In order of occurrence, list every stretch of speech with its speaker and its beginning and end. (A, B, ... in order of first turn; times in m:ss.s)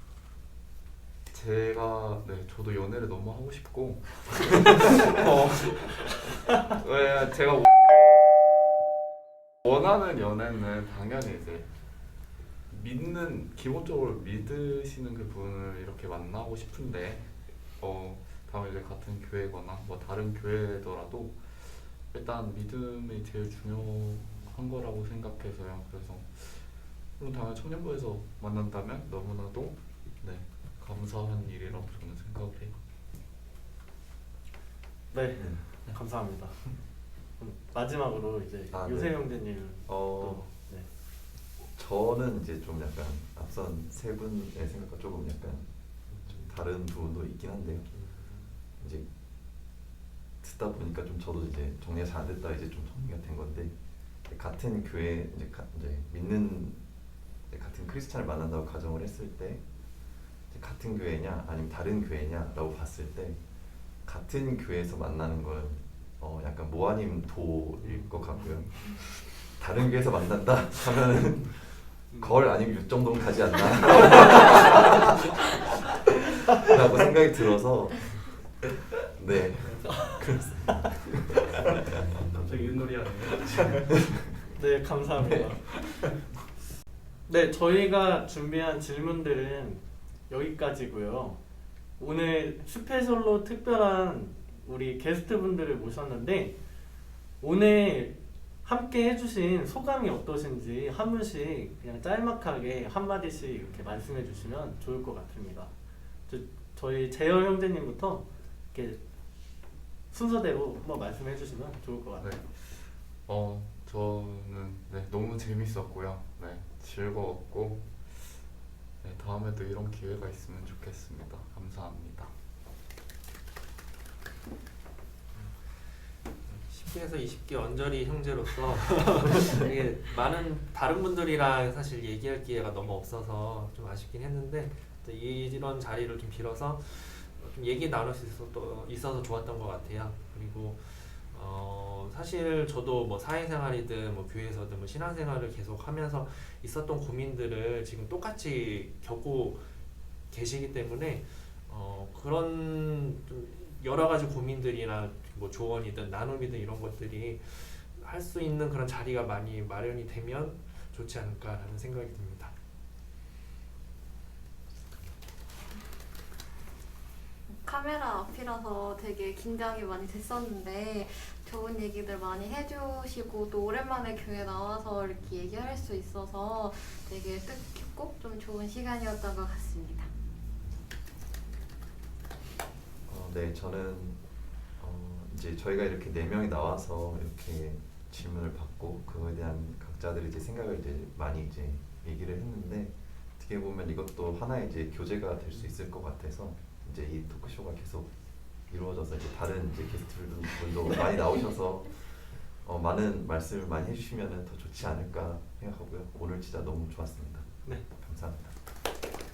0:01.3-0:07.9 A
0:09.6-0:11.7 A
0:12.7-0:32.8 A
0:35.1-0:36.8 B
0:35.4-0:35.6 C
0:37.4-0:40.9 B
0:38.7-0:40.5 C
0:41.6-0:47.9 C
0:48.0-0:48.4 D
0:48.8-0:49.1 C
0:50.4-0:56.9 C
0:57.5-0:59.6 C
1:00.5-1:03.4 C
1:04.0-1:15.0 C
1:07.8-1:08.7 B
1:12.1-1:12.4 B
1:16.6-1:18.4 C
1:19.2-1:22.2 C
1:19.6-1:19.9 A
1:19.9-1:20.7 B
1:21.6-1:24.4 A
1:23.8-1:24.1 C
1:24.6-1:25.8 B
1:25.2-1:26.3 A
1:27.3-1:31.4 B
1:32.0-1:36.6 B
1:37.4-1:45.7 B
1:46.3-1:49.0 B
1:50.1-1:52.3 B
1:52.2-1:58.4 A
1:59.0-2:02.3 A
2:05.3-2:29.6 D
2:30.3-2:42.5 D
2:47.5-3:00.1 E
3:03.0-3:04.2 C
3:04.8-3:28.5 C